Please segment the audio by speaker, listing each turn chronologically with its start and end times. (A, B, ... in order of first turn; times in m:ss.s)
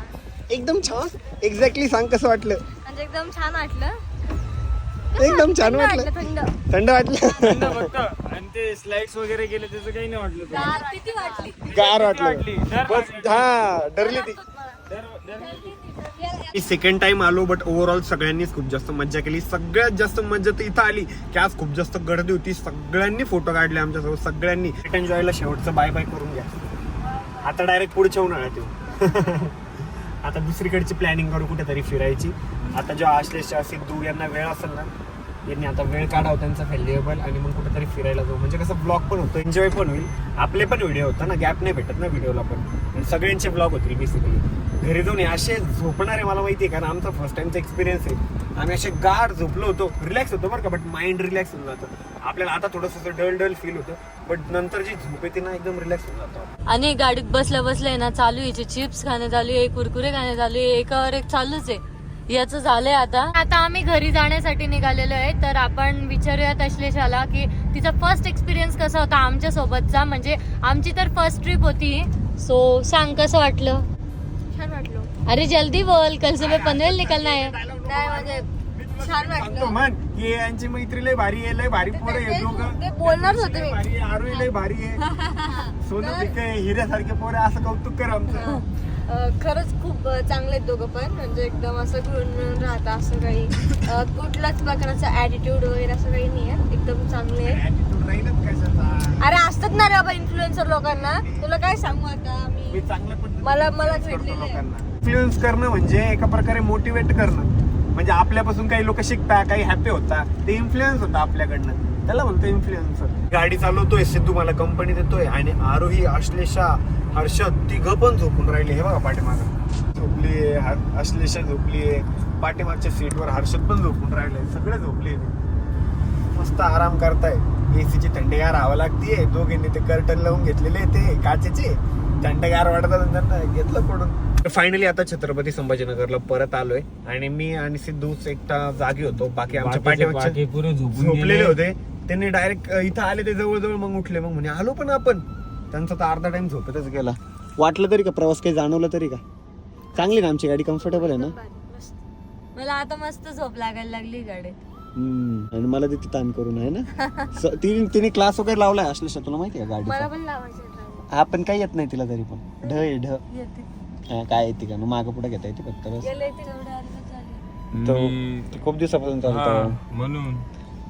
0:00.5-0:02.6 A
0:02.8-0:04.0 B
0:05.1-0:06.1 A
0:05.1-0:06.5 B
0:06.7-0:07.8 A
0:07.4-0:10.7 C
0:10.5-0:11.6 B
0:10.5-0:11.5 D
0:11.7-0:13.5 C
0:11.7-0:14.4 A
0:14.0-0:14.8 B
0:14.9-0:15.7 C
0:15.4-0:16.7 B
0:16.5-0:26.7 A
0:27.4-0:34.9 A
0:35.5-0:56.5 A
0:56.7-1:13.8 D
1:14.5-1:15.1 B
1:15.2-1:17.5 D
1:16.4-1:25.0 A
1:17.8-1:18.5 B
1:19.0-1:19.8 B
1:21.8-1:23.8 B
1:25.0-1:26.3 B
1:25.8-1:28.5 A
1:28.4-1:37.6 B
1:37.4-1:39.3 A
1:39.2-1:42.8 B
1:42.7-2:05.3 A
1:43.4-1:44.6 B
2:06.3-2:20.4 A
2:19.5-2:21.6 C
2:20.9-2:29.2 A
2:29.9-2:31.3 A
2:30.8-2:32.0 B
2:32.6-2:34.6 D
2:35.0-2:40.1 A
2:39.8-2:41.1 B
2:41.1-2:43.2 A
2:44.1-2:46.1 A
2:46.0-2:47.4 B
2:47.7-2:48.5 C
2:47.8-2:49.8 A
2:49.2-2:50.4 C